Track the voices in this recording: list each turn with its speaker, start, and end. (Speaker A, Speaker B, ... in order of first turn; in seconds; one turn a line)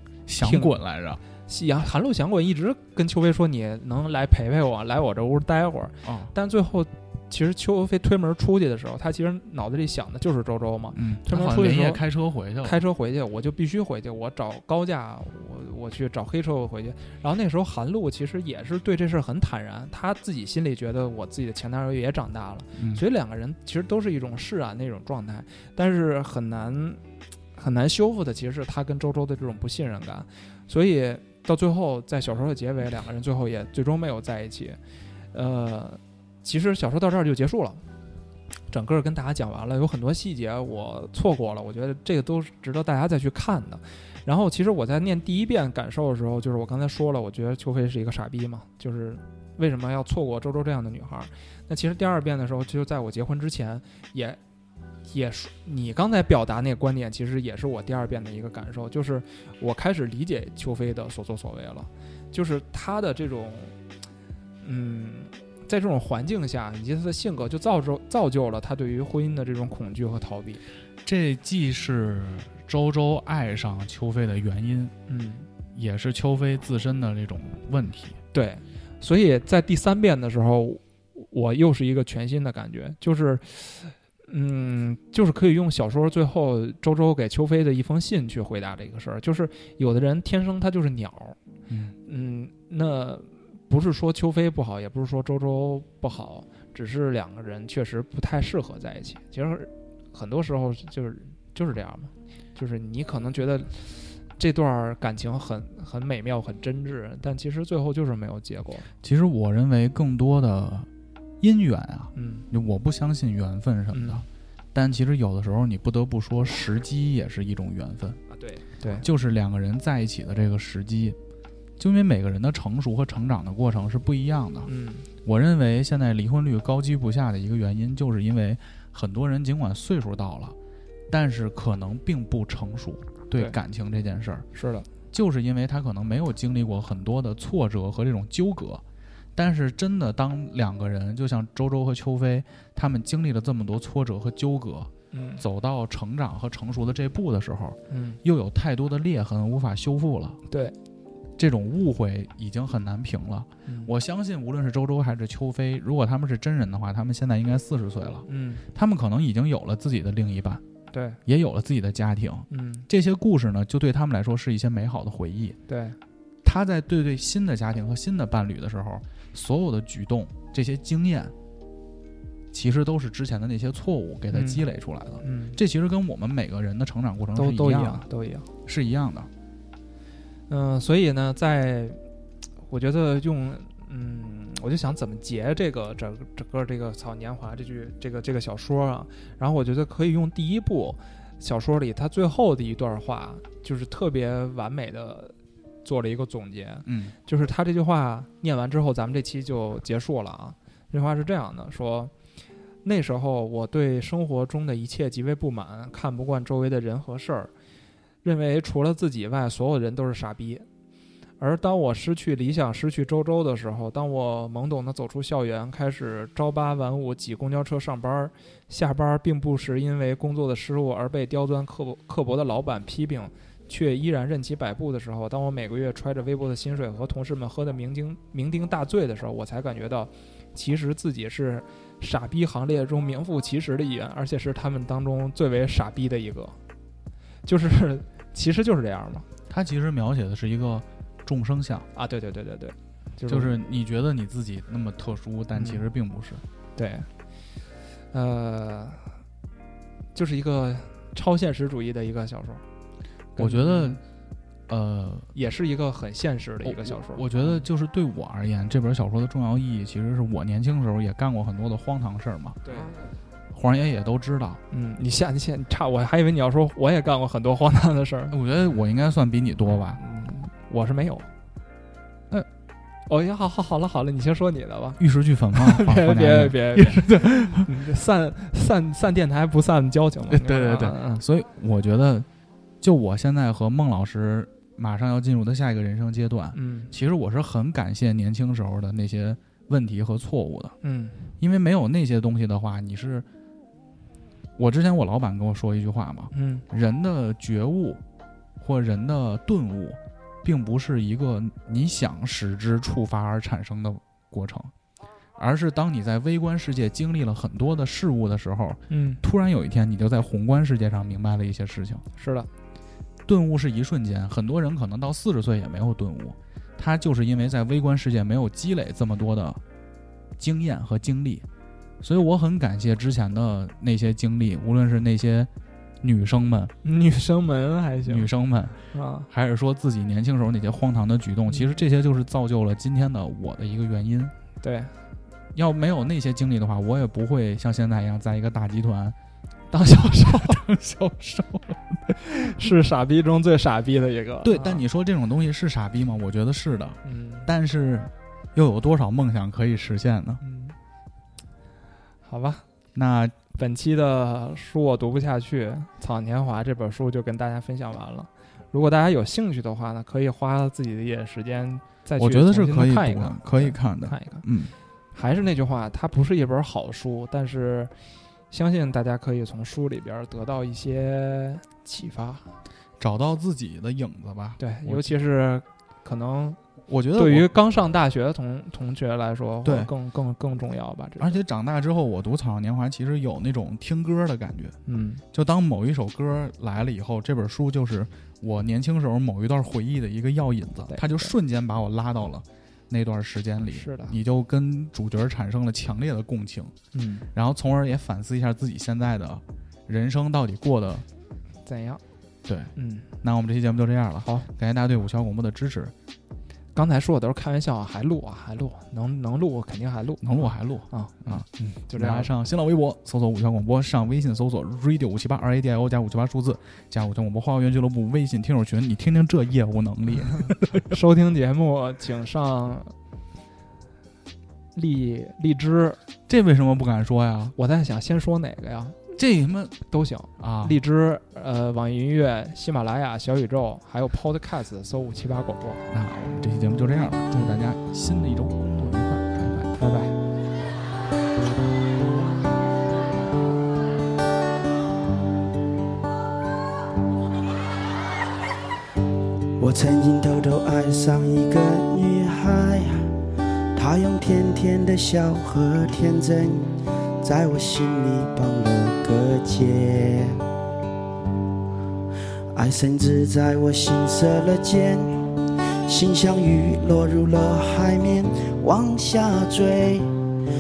Speaker A: 0.3-1.2
Speaker B: 0.4-0.7
Speaker B: 1.4-12.0
Speaker A: 6.0-6.3
Speaker A: 10.9-12.8
Speaker B: 12.6-27.0
Speaker A: 22.8-23.0
Speaker B: 27.6-34.8
Speaker B: 35.3-37.8
Speaker B: 38.7-54.4
Speaker B: 55.1-63.7
Speaker B: 64.6-70.6
Speaker A: 71.0-74.9
Speaker B: 75.1-75.5
Speaker A: 75.7-78.2
Speaker B: 78.3-91.4
Speaker A: 91.7-92.0
Speaker B: 92.1-108.9
Speaker A: 109.0-110.9
Speaker A: 111.4-118.2
Speaker B: 112.2-112.5
Speaker B: 113.9-114.2
Speaker B: 118.3-119.1
Speaker A: 118.9-121.2
Speaker A: 121.8-124.7
Speaker B: 124.7-125.1
Speaker A: 125.2-130.6
Speaker A: 131.1-134.5
Speaker B: 134.6-134.9
Speaker A: 135.1-138.8
Speaker A: 139.4-150.4
Speaker B: 145.1-145.4
Speaker B: 147.9-148.2
Speaker B: 150.5-150.7
Speaker A: 151.4-160.6
Speaker B: 153.7-153.9
Speaker B: 158.3-158.6
Speaker B: 160.9-161.2
Speaker A: 161.2-165.6
Speaker B: 162.5-162.9
Speaker B: 165.7-166.0
Speaker A: 166.4-171.3
Speaker A: 172.5-178.1
Speaker B: 174.3-174.7
Speaker B: 175.2-175.6
Speaker B: 177.3-178.5
Speaker A: 178.7-179.3
Speaker B: 180.5-182.0
Speaker B: 182.7-202.1
Speaker A: 196.8-197.2
Speaker B: 202.8-207.5
Speaker B: 208.2-210.7
Speaker B: 211.4-236.6
Speaker B: 237.4-239.3
Speaker A: 239.5-241.9
Speaker B: 241.9-243.6
Speaker A: 243.3-246.4
Speaker B: 245.6-245.8
Speaker B: 246.8-247.1
Speaker B: 248.1-249.1
Speaker B: 250.2-252.6
Speaker B: 253.4-254.0
Speaker A: 253.4-254.0
Speaker A: 254.7-255.3
Speaker B: 255.3-257.6
Speaker A: 256.6-262.6
Speaker B: 262.6-262.9
Speaker A: 263.5-264.6
Speaker B: 264.7-268.4
Speaker A: 268.3-270.0
Speaker B: 270.0-271.3
Speaker B: 273.1-275.0
Speaker A: 275.0-277.6
Speaker B: 275.5-281.2
Speaker A: 280.3-282.3
Speaker A: 282.8-290.7
Speaker B: 286.5-286.9
Speaker B: 290.8-291.2
Speaker A: 291.4-293.3
Speaker A: 294.6-298.0
Speaker B: 296.3-296.6
Speaker A: 298.6-304.7
Speaker A: 305.4-312.1
Speaker B: 308.9-309.2
Speaker B: 312.1-312.5
Speaker A: 313.3-319.6
Speaker A: 320.4-321.4
Speaker A: 322.0-325.5
Speaker A: 326.0-326.7
Speaker B: 326.8-328.3
Speaker A: 328.1-334.3
Speaker B: 328.9-329.3
Speaker B: 334.6-334.9
Speaker A: 335.5-339.1
Speaker B: 339.7-340.6
Speaker A: 339.9-342.5
Speaker B: 342.3-344.8
Speaker A: 344.4-350.4
Speaker B: 347.0-347.5
Speaker B: 350.4-350.7
Speaker B: 352.2-352.6
Speaker A: 352.9-353.4
Speaker B: 353.5-364.4
Speaker A: 362.2-364.7
Speaker B: 365.1-367.9
Speaker B: 368.5-372.5
Speaker A: 373.0-375.1
Speaker B: 374.6-376.6
Speaker A: 376.9-377.5
Speaker B: 377.1-381.4
Speaker A: 379.6-379.9
Speaker A: 381.2-384.8
Speaker B: 384.9-385.2
Speaker A: 385.3-396.7
Speaker B: 390.9-391.3
Speaker B: 393.7-394.2
Speaker B: 396.9-397.3
Speaker A: 397.3-401.1
Speaker B: 401.6-402.0
Speaker A: 402.4-405.9
Speaker B: 402.8-403.1
Speaker B: 404.2-404.5
Speaker B: 406.7-412.3
Speaker A: 410.2-421.0
Speaker B: 420.9-422.9
Speaker B: 424.7-426.0
Speaker A: 426.3-427.6
Speaker B: 427.6-429.0
Speaker A: 429.1-429.8
Speaker B: 429.9-435.9
Speaker A: 430.4-430.8
Speaker A: 435.9-439.8
Speaker B: 439.8-440.1
Speaker C: 449.6-453.1
Speaker C: 453.7-456.7
Speaker C: 457.2-460.4
Speaker C: 462.5-465.2
Speaker C: 465.9-470.1